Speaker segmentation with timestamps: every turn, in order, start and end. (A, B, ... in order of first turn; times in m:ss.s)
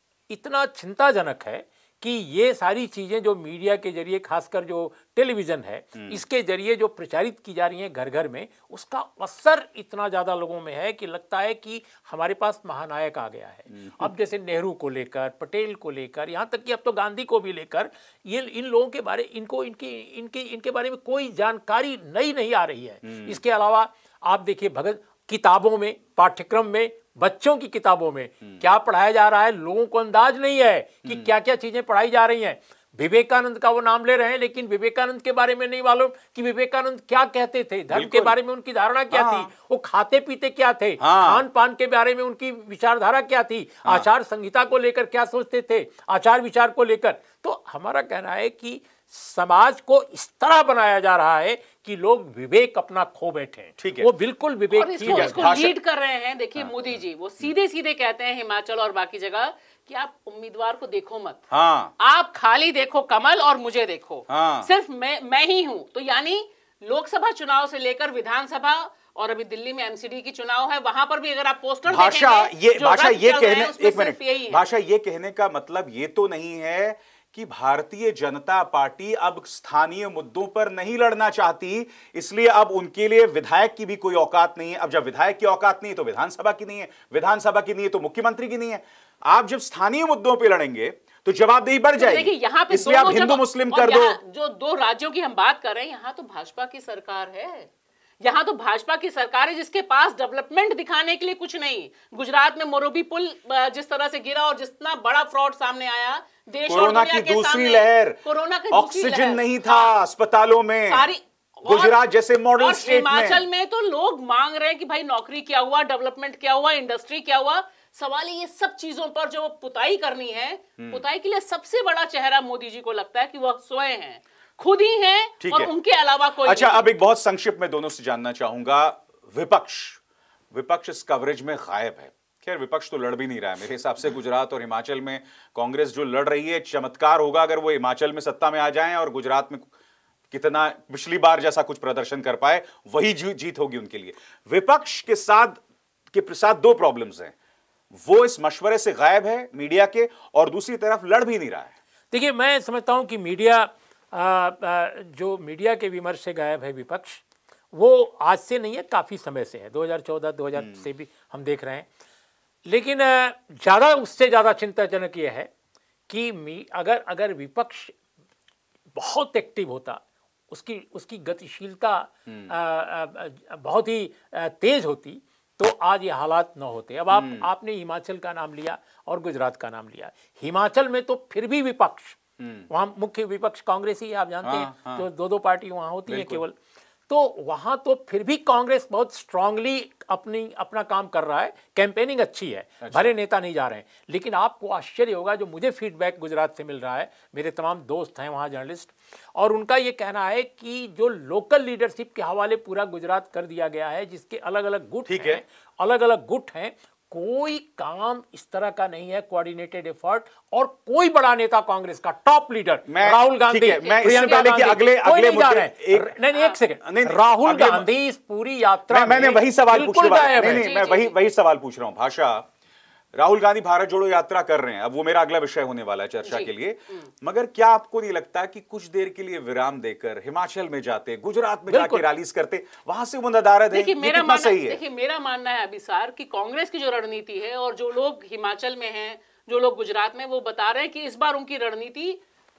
0:00.3-0:55.6 A
0:06.0-0:06.2 B
0:13.7-0:14.1 B
0:23.0-0:23.4 B
0:31.0-0:31.3 B
0:37.9-0:38.4 B
0:39.1-0:39.5 B
0:41.0-0:41.4 B
0:53.8-0:54.1 B
0:54.7-1:01.4 C
0:55.0-0:55.8 B
1:01.5-1:01.9 B
1:02.0-1:14.6 C
1:04.3-1:04.7 B
1:11.9-1:34.2 B
1:32.0-1:37.7 C
1:38.2-1:50.0 C
1:46.7-1:51.1 B
1:50.9-1:52.0 C
1:51.6-1:53.4 B
1:52.6-2:06.9 C
2:00.8-2:01.0 B
2:05.4-2:05.7 B
2:06.4-2:10.0 B
2:10.5-2:19.7 B
2:20.3-2:25.6 B
2:26.1-2:27.3 B
2:27.9-2:31.8 B
2:32.1-2:41.9 A
2:40.6-2:40.8 B
2:42.7-2:45.5 A
2:46.1-2:48.0 A
2:49.0-3:06.6 A
2:57.1-2:57.5 B
3:02.4-3:02.7 B
3:04.4-3:05.1 B
3:06.1-3:06.4 B
3:07.1-3:40.7 A
3:12.8-3:13.1 B
3:25.1-3:25.4 B
3:32.9-3:36.2 B
3:33.7-3:34.6 C
3:36.3-3:36.6 C
3:36.8-3:37.9 B
3:38.9-3:42.5 B
3:40.4-3:41.1 C
3:43.1-3:54.8 B
3:46.2-3:47.1 C
3:51.7-3:52.0 A
3:53.7-4:02.2 C